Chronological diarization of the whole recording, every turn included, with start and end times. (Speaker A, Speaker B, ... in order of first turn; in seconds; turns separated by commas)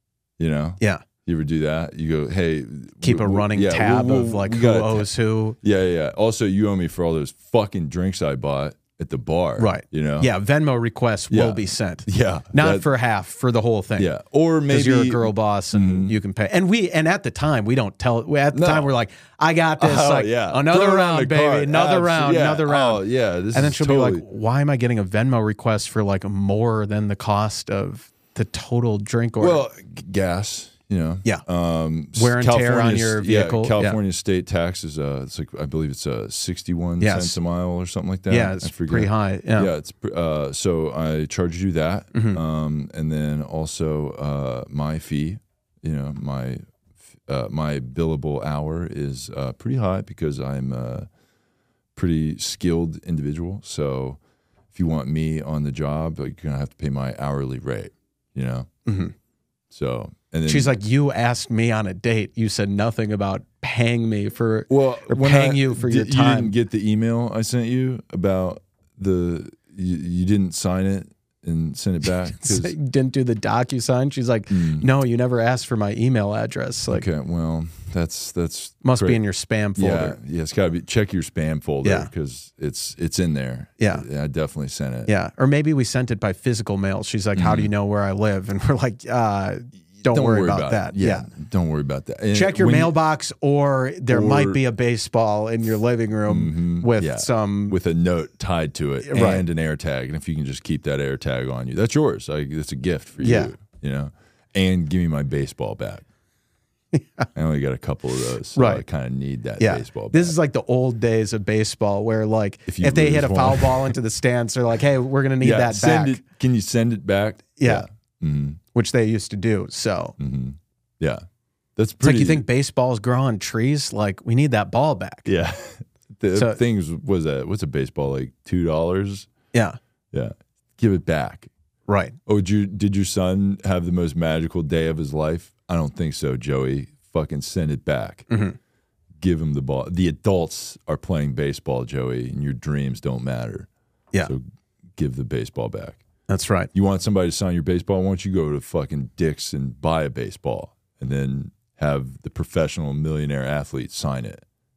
Speaker A: 0.4-5.1, Speaker B: 3.0-5.6, Speaker A: 5.6-10.3, Speaker B: 9.6-14.1, Speaker A: 11.3-12.9, Speaker A: 14.0-16.1, Speaker B: 14.7-29.6, Speaker A: 18.5-18.9, Speaker A: 19.8-24.2, Speaker A: 29.4-46.7, Speaker B: 32.2-34.0, Speaker B: 37.0-37.4, Speaker B: 38.3-39.7, Speaker B: 42.1-42.4, Speaker A: 47.3-51.1, Speaker A: 52.0-54.2, Speaker A: 54.7-58.7, Speaker B: 58.9-59.1, Speaker A: 59.7-60.7, Speaker B: 60.5-66.5, Speaker A: 64.7-72.8, Speaker B: 72.3-77.1, Speaker A: 74.5-74.9, Speaker A: 76.9-79.2, Speaker B: 78.8-80.2, Speaker A: 79.8-85.1, Speaker B: 81.8-82.1, Speaker B: 83.8-84.0, Speaker B: 85.1-91.3, Speaker A: 87.3-87.7, Speaker A: 90.0-92.9, Speaker B: 92.3-97.8, Speaker A: 94.1-94.6, Speaker A: 96.3-106.0, Speaker B: 99.0-99.4, Speaker B: 103.2-103.5, Speaker B: 106.9-107.3, Speaker A: 107.3-110.3, Speaker B: 108.5-108.8, Speaker B: 109.6-116.2, Speaker A: 112.7-114.0, Speaker A: 115.4-118.6, Speaker B: 117.6-117.9, Speaker B: 118.7-120.2, Speaker A: 120.2-121.2, Speaker A: 121.8-122.4, Speaker B: 122.0-125.3, Speaker A: 125.3-129.3, Speaker B: 126.3-126.6, Speaker B: 129.5-129.8, Speaker A: 130.1-131.5, Speaker B: 131.9-132.2, Speaker A: 132.3-138.3, Speaker B: 138.3-138.6, Speaker A: 139.2-143.7, Speaker A: 145.0-146.0, Speaker B: 146.3-146.7, Speaker A: 146.7-154.4